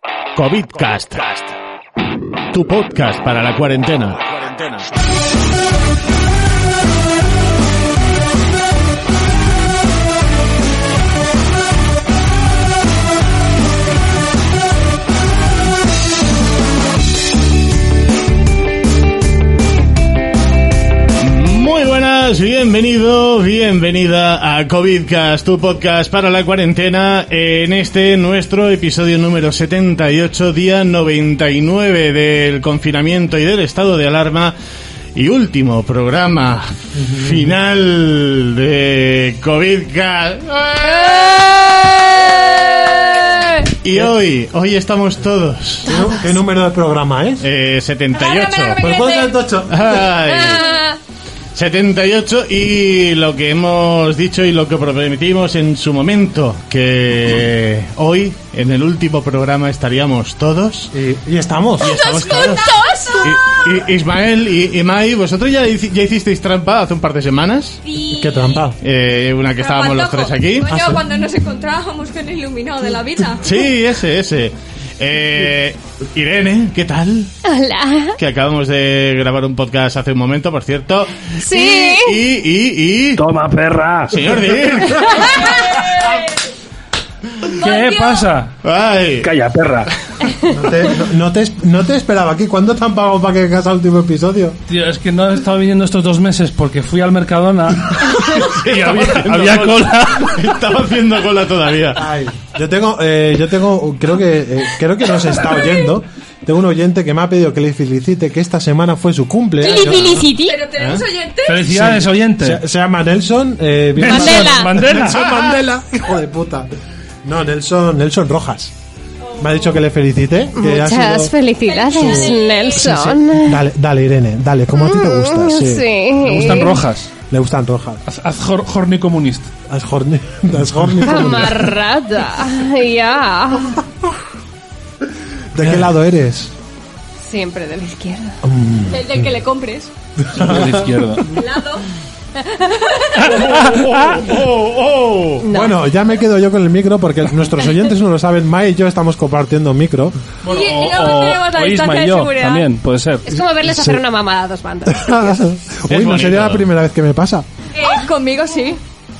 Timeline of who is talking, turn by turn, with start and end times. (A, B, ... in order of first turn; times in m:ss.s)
0:00.4-0:01.6 A
0:02.5-0:04.9 A
0:21.2-0:34.6 A
0:35.1-0:41.4 A
0:36.9-0:37.6 B
0:40.8-0:43.7 C
0:43.8-0:45.9 A
0:45.8-0:47.5 B
0:45.8-0:46.3 C
0:47.4-0:48.8 A
0:48.1-0:51.0 C
0:48.8-0:50.0 B
0:49.7-0:50.7 A
0:51.5-1:00.9 A
1:00.9-1:02.0 B
1:01.8-1:03.8 D
1:01.8-1:07.8 A
1:07.8-1:08.7 D
1:08.0-1:08.8 B
1:08.8-1:10.8 A
1:09.6-1:13.4 D
1:10.6-1:11.0 B
1:13.4-1:17.3 A
1:17.4-1:18.2 C
1:18.2-1:23.3 A
1:21.4-1:22.2 C
1:23.2-1:24.3 E
1:24.1-1:25.3 A
1:24.7-1:25.0 B
1:24.9-1:25.6 C
1:25.3-1:26.3 D
1:27.5-1:28.5 E
1:27.6-1:28.3 D
1:28.6-1:29.3 A
1:29.2-1:29.9 E
1:30.4-1:34.6 B
1:34.7-1:40.5 E
1:38.1-1:42.0 A
1:41.9-1:50.3 B
1:49.6-1:50.6 C
1:49.6-1:51.7 D
1:50.8-1:51.0 A
1:51.4-1:52.6 E
1:51.7-1:56.7 B
1:54.0-1:55.2 E
1:54.0-1:54.8 C
1:54.9-1:55.6 A
1:57.2-1:58.7 B
1:59.2-1:59.8 D
1:59.4-2:01.3 B
2:00.5-2:03.6 C
2:01.6-2:03.0 D
2:01.9-2:05.8 B
2:04.7-2:06.8 C
2:06.2-2:07.1 E
2:07.2-2:08.0 B
2:08.0-2:09.5 E
2:09.7-2:11.8 B
2:11.0-2:13.8 C
2:15.5-2:16.5 B
2:17.2-2:18.4 C
2:18.4-2:19.3 B
2:18.9-2:19.9 D
2:20.2-2:21.2 B
2:20.3-2:21.4 E
2:21.3-2:21.9 D
2:22.4-2:23.2 C
2:22.9-2:23.3 D
2:23.2-2:24.3 E
2:23.2-2:25.4 A
2:25.4-2:25.8 C
2:25.5-2:30.2 B
2:30.4-2:33.3 E
2:30.4-2:32.7 D
2:33.3-2:35.4 C
2:33.3-2:34.0 B
2:34.8-2:37.5 B
2:35.9-2:36.7 A
2:37.7-2:38.8 D